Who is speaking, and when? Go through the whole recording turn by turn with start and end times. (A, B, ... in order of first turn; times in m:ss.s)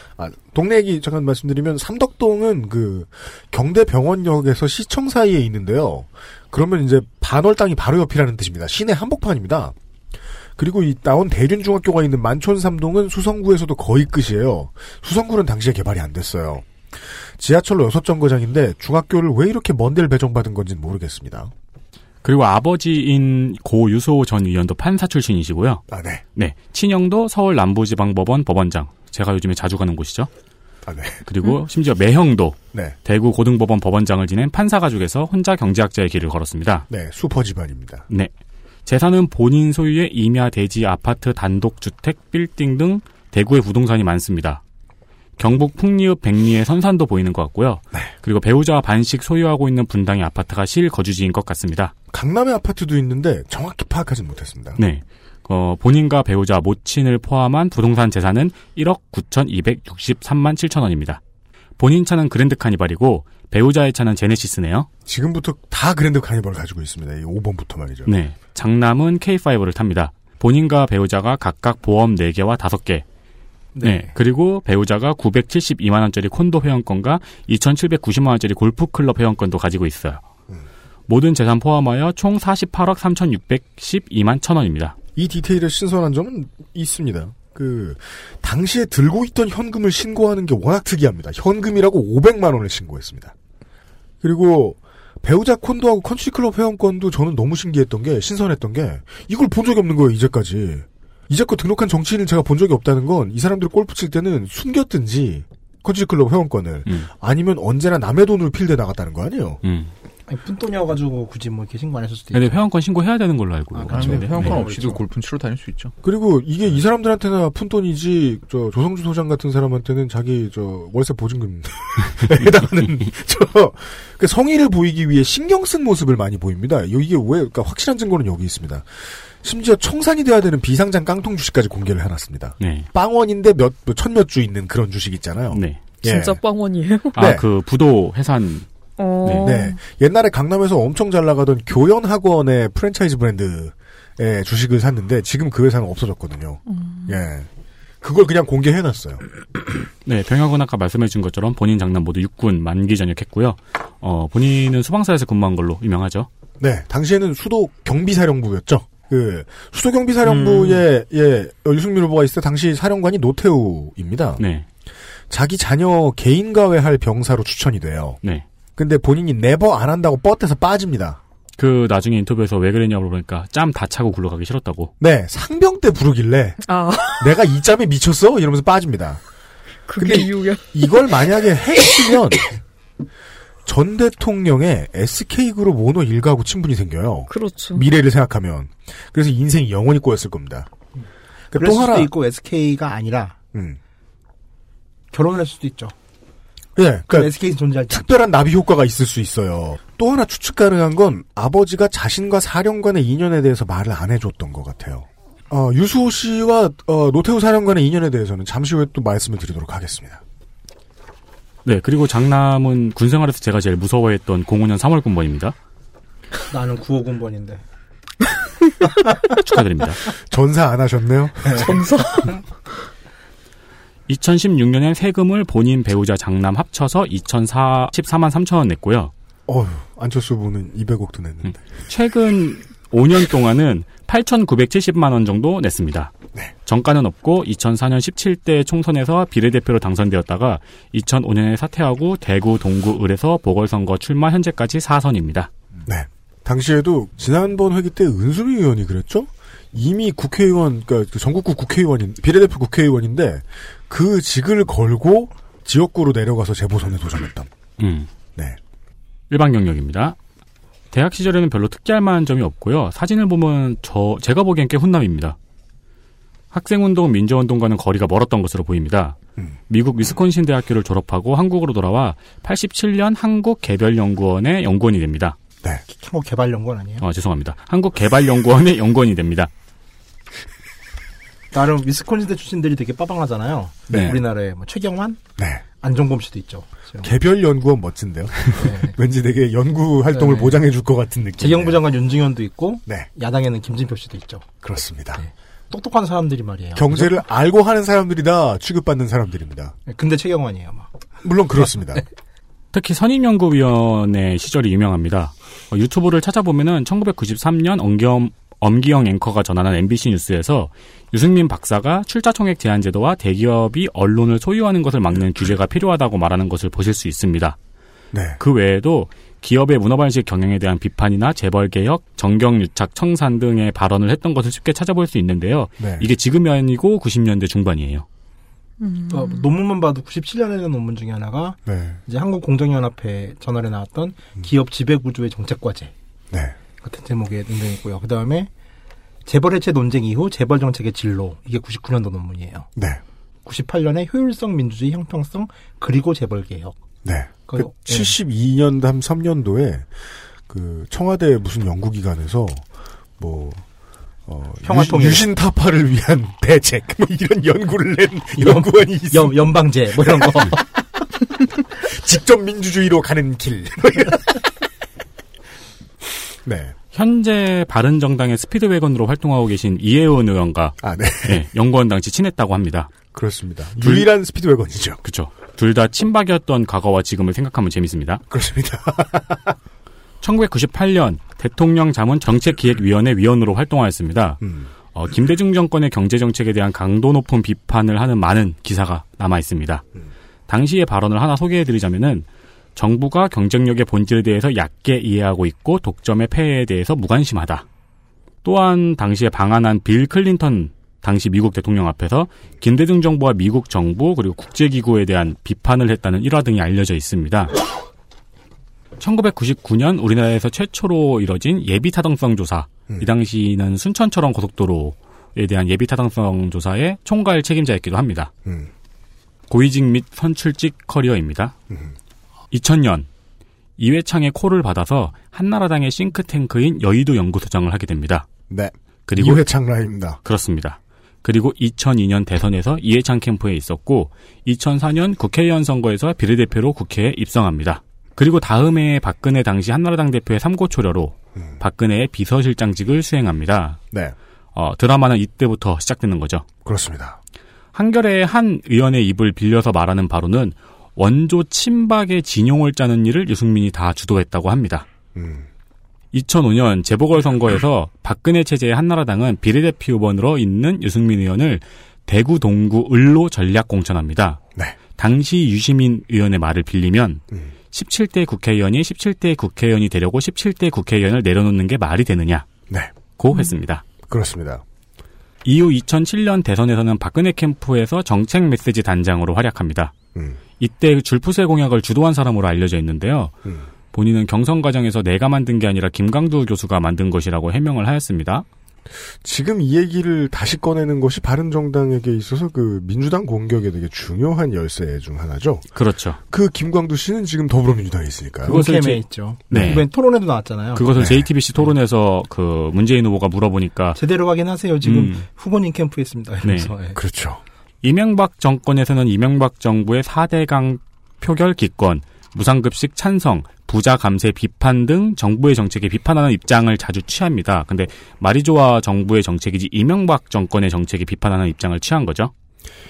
0:00.2-0:09.8 A
0:10.6-0:16.7 A
0:17.4-0:21.5 A
0:22.2-0:25.8 B
0:25.9-0:26.2 A
0:26.4-0:30.3 B
0:30.9-0:31.2 A
0:31.2-0:36.9 B
0:36.9-0:38.1 A
0:38.9-0:44.6 B
0:45.4-0:51.9 B
0:52.1-0:54.8 A
0:54.8-1:01.2 B
1:01.8-1:04.9 B
1:05.1-1:08.1 A
1:08.1-1:13.0 B
1:13.7-1:14.1 C
1:13.8-1:20.2 B
1:21.1-1:25.0 B
1:25.2-1:33.3 A
1:34.2-1:49.6 A
1:49.6-1:49.9 B
1:50.3-1:52.6 C
1:52.3-1:54.6 B
1:53.7-1:54.8 C
1:53.9-1:55.9 D
1:56.0-2:16.4 A
2:12.6-2:12.9 B
2:15.5-2:15.8 B
2:16.0-2:17.3 E
2:17.2-2:17.4 A
2:17.2-2:18.7 B
2:19.0-2:19.8 E
2:19.2-2:19.5 B
2:19.4-2:27.5 A
2:26.7-2:27.2 E
2:28.0-2:29.2 A
2:30.0-2:36.3 B
2:36.6-2:44.4 A
2:44.4-2:44.7 B
2:45.3-2:48.2 A
2:48.8-2:51.2 A
2:51.6-2:54.9 B
2:55.0-2:56.6 A
2:56.7-2:57.3 E
2:57.2-2:59.2 A
2:59.9-3:00.9 E
3:00.0-3:02.5 A
3:03.7-3:10.7 A
3:07.3-3:07.8 E
3:11.5-3:12.1 A
3:11.5-3:13.4 C
3:13.5-3:13.8 A
3:15.1-3:15.9 C
3:16.8-3:17.3 A
3:17.1-3:18.1 C
3:17.9-3:30.2 A
3:31.6-3:35.6 B
3:36.5-3:37.6 C
3:39.4-3:40.0 B
3:40.3-3:41.8 A
3:41.6-3:42.4 E
3:44.1-3:49.1 B
3:49.5-3:51.6 A
3:51.4-3:56.1 B
3:56.7-4:05.5 B
4:05.9-4:17.5 A
4:17.8-4:18.1 B
4:19.3-4:20.2 B
4:20.9-4:25.4 B
4:26.5-4:29.2 B
4:29.7-4:35.4 B
4:35.9-4:37.0 C
4:37.0-4:39.5 B
4:41.5-4:45.2 C
4:43.9-4:44.2 A
4:45.4-4:45.6 A
4:45.8-4:47.1 C
4:47.0-4:51.8 A
4:48.5-4:49.0 C
4:50.2-4:50.6 C
4:51.4-4:54.5 C
4:54.6-4:55.2 A
4:55.2-4:57.1 C
4:56.8-4:59.8 A
4:59.9-5:00.9 C
5:01.2-5:02.0 A
5:02.7-5:17.6 B
5:18.1-5:18.4 A
5:18.4-5:28.1 B
5:25.8-5:26.1 A
5:28.8-5:29.4 E
5:29.1-5:35.9 C
5:31.7-5:32.0 A
5:36.3-5:36.6 A
5:36.8-5:38.5 C
5:39.3-5:42.7 C
5:42.8-5:43.0 A
5:43.4-5:46.8 C
5:47.0-5:49.9 A
5:47.5-5:48.1 C
5:50.5-5:52.6 A
5:53.2-5:53.6 A
5:54.3-6:00.6 A
5:54.6-5:55.3 C
5:58.4-6:00.8 C
6:01.8-6:04.5 A
6:06.4-6:06.7 A
6:06.9-6:12.9 B
6:10.8-6:11.4 A
6:13.1-6:15.0 A
6:13.8-6:14.1 B
6:15.0-6:18.2 B
6:18.3-6:19.6 A
6:20.2-6:24.4 B
6:24.4-6:24.7 A
6:24.9-6:29.8 B
6:30.5-6:37.7 B
6:38.4-6:47.6 B
6:49.0-6:58.3 B
6:59.5-7:01.6 B
7:02.5-7:03.1 B
7:03.8-7:08.3 B
7:08.5-7:10.2 A
7:09.1-7:09.5 B
7:10.2-7:23.8 B
7:24.6-7:26.5 B
7:26.6-7:27.2 A
7:27.7-7:34.9 B
7:35.2-7:35.5 A
7:36.1-7:44.4 B
7:45.0-7:52.5 B
7:53.2-7:53.8 B
7:54.1-7:54.6 A
7:55.4-7:59.9 B
8:00.6-8:03.3 B
8:03.9-8:08.4 B
8:09.2-8:15.6 A
8:15.8-8:16.2 B
8:16.3-8:18.6 A
8:18.5-8:20.9 C
8:18.5-8:19.9 B
8:19.5-8:19.8 A
8:20.8-8:24.0 B
8:21.0-8:21.3 A
8:24.0-8:27.0 C
8:24.8-8:25.2 B
8:26.4-8:26.7 B
8:27.0-8:27.4 A
8:27.8-8:42.3 B